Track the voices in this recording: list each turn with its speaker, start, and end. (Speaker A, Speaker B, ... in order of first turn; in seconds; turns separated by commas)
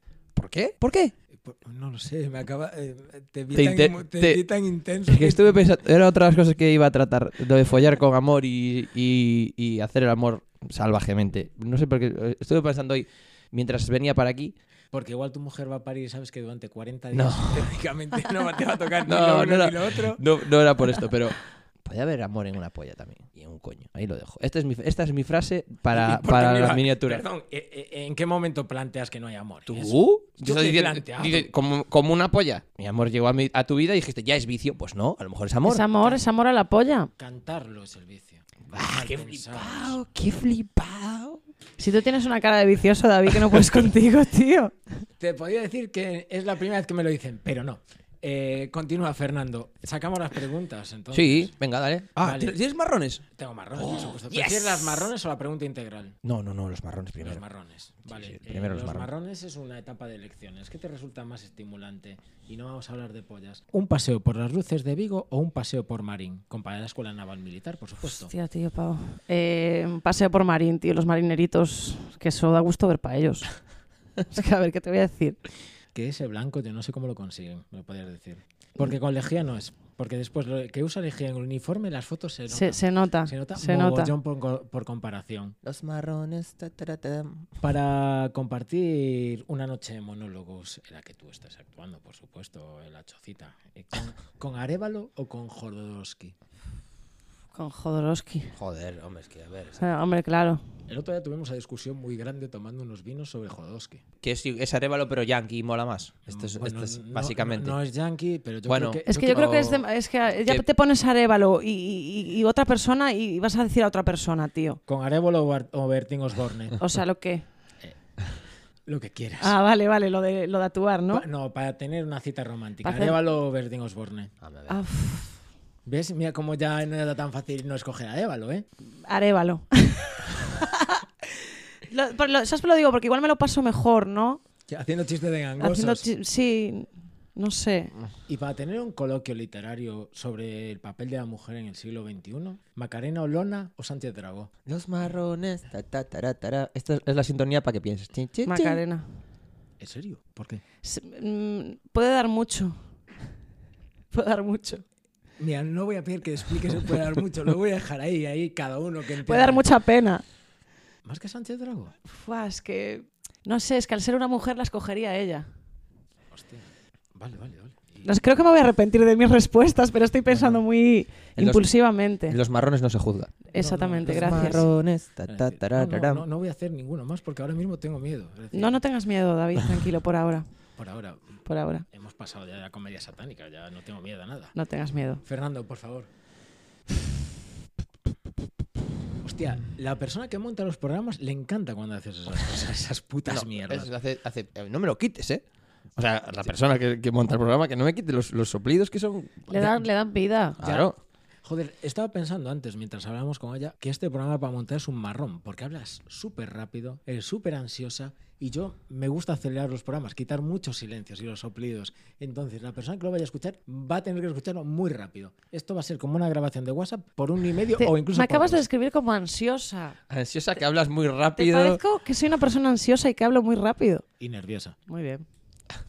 Speaker A: 0.4-1.1, Speaker B: 1.4-5.6, Speaker A: 3.5-4.4, Speaker A: 5.1-14.6, Speaker B: 14.9-20.2, Speaker A: 17.1-17.7, Speaker A: 19.1-27.2, Speaker B: 25.9-31.5, Speaker A: 29.7-35.8, Speaker C: 35.6-37.1, Speaker B: 37.2-40.0, Speaker A: 38.7-41.4, Speaker C: 41.8-45.0, Speaker B: 45.2-51.5, Speaker A: 51.1-53.2, Speaker B: 52.2-52.6, Speaker B: 53.2-56.2, Speaker A: 53.8-55.0, Speaker A: 56.2-57.4, Speaker B: 57.2-68.3, Speaker A: 58.1-59.1, Speaker C: 68.1-73.5, Speaker C: 74.3-75.4, Speaker B: 75.9-85.6, Speaker C: 82.5-84.1, Speaker A: 85.6-87.5, Speaker B: 87.6-96.3, Speaker C: 97.5-98.5, Speaker A: 98.5-99.8, Speaker C: 99.8-100.6, Speaker B: 100.9-104.0, Speaker A: 104.2-107.8, Speaker B: 106.3-109.7, Speaker A: 108.7-109.8, Speaker C: 109.1-114.8, Speaker B: 114.9-116.8, Speaker C: 116.8-117.5, Speaker B: 118.9-119.6, Speaker C: 119.4-121.2, Speaker B: 121.1-124.3, Speaker C: 122.8-123.2, Speaker A: 124.4-124.8, Speaker C: 124.7-125.3, Speaker B: 125.8-128.7, Speaker C: 129.1-131.0, Speaker C: 131.9-134.4, Speaker B: 134.7-136.1, Speaker C: 135.6-137.9, Speaker B: 138.3-144.5, Speaker A: 144.7-148.8, Speaker C: 148.5-149.1, Speaker B: 149.8-150.6, Speaker C: 150.8-152.8, Speaker C: 154.1-154.8, Speaker B: 155.4-159.7, Speaker C: 159.2-160.2, Speaker B: 161.1-161.9, Speaker C: 162.1-165.5, Speaker B: 166.3-168.1, Speaker C: 168.0-172.4, Speaker A: 171.4-171.7, Speaker A: 172.3-173.4, Speaker C: 173.5-174.7, Speaker B: 173.5-174.7, Speaker A: 174.0-176.2, Speaker B: 175.3-178.8, Speaker C: 178.5-180.5, Speaker B: 180.8-181.4, Speaker C: 181.5-181.9, Speaker B: 181.9-184.5, Speaker C: 184.6-185.2, Speaker B: 185.2-186.1, Speaker B: 189.2-193.9, Speaker A: 193.3-195.4, Speaker A: 196.0-199.8, Speaker C: 199.5-200.6, Speaker A: 200.6-201.0, Speaker B: 200.6-200.9, Speaker B: 201.4-218.7, Speaker C: 217.8-220.0, Speaker A: 220.1-221.8, Speaker C: 221.4-224.1, Speaker B: 224.2-224.8, Speaker C: 224.9-225.3